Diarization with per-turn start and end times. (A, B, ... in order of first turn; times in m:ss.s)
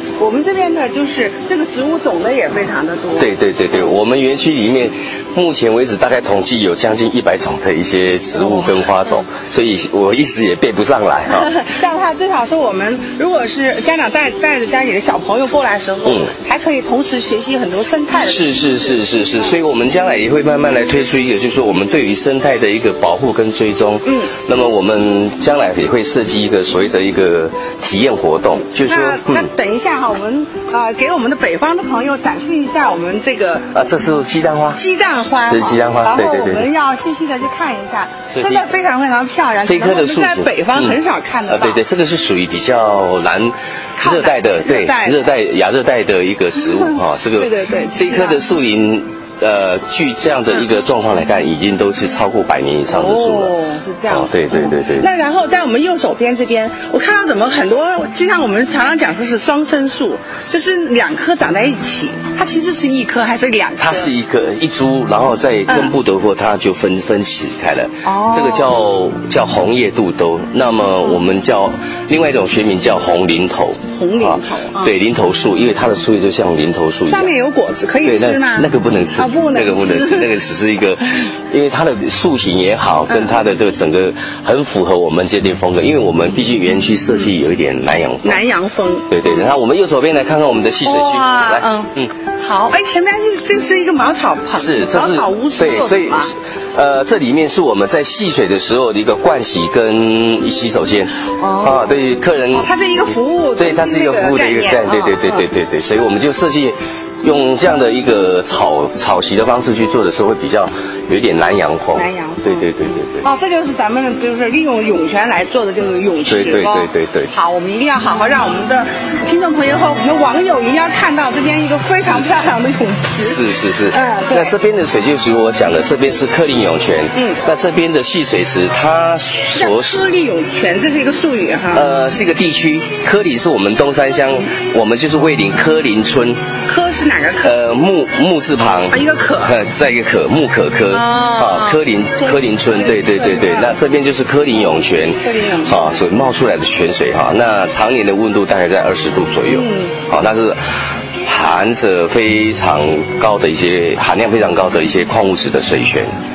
0:00.2-0:03.3 A
0:03.1-0:11.5 B
0:08.4-0:08.7 A
0:11.3-0:19.0 A
0:16.0-0:16.3 B
0:18.2-0:29.5 B
0:24.0-0:24.3 A
0:28.7-0:33.7 A
0:33.7-0:34.8 B
0:34.8-0:41.8 A
0:35.5-0:36.7 B
0:38.3-0:38.6 B
0:39.6-0:41.0 B
0:41.5-0:53.5 B
0:44.0-0:45.2 A
0:46.7-0:48.4 A
0:52.9-1:04.1 A
0:54.1-0:55.1 B
1:03.8-1:17.3 B
1:05.7-1:05.9 A
1:08.0-1:08.7 A
1:13.9-1:14.9 A
1:17.1-1:20.3 A
1:18.0-1:28.4 B
1:23.1-1:23.4 A
1:28.2-1:29.1 A
1:29.1-1:32.1 B
1:30.8-1:36.3 A
1:34.6-1:42.7 B
1:41.4-1:41.9 A
1:42.6-1:45.5 A
1:43.6-1:53.3 B
1:51.9-1:52.7 A
1:53.2-2:04.5 A
1:56.3-1:57.3 B
2:03.2-2:10.0 B
2:07.1-2:07.4 A
2:09.5-2:11.9 A
2:11.7-2:16.5 B
2:16.6-2:17.5 A
2:17.4-2:30.6 B
2:18.9-2:19.6 A
2:20.9-2:23.8 A
2:25.2-2:26.0 A
2:29.5-2:30.0 A
2:31.2-2:36.1 B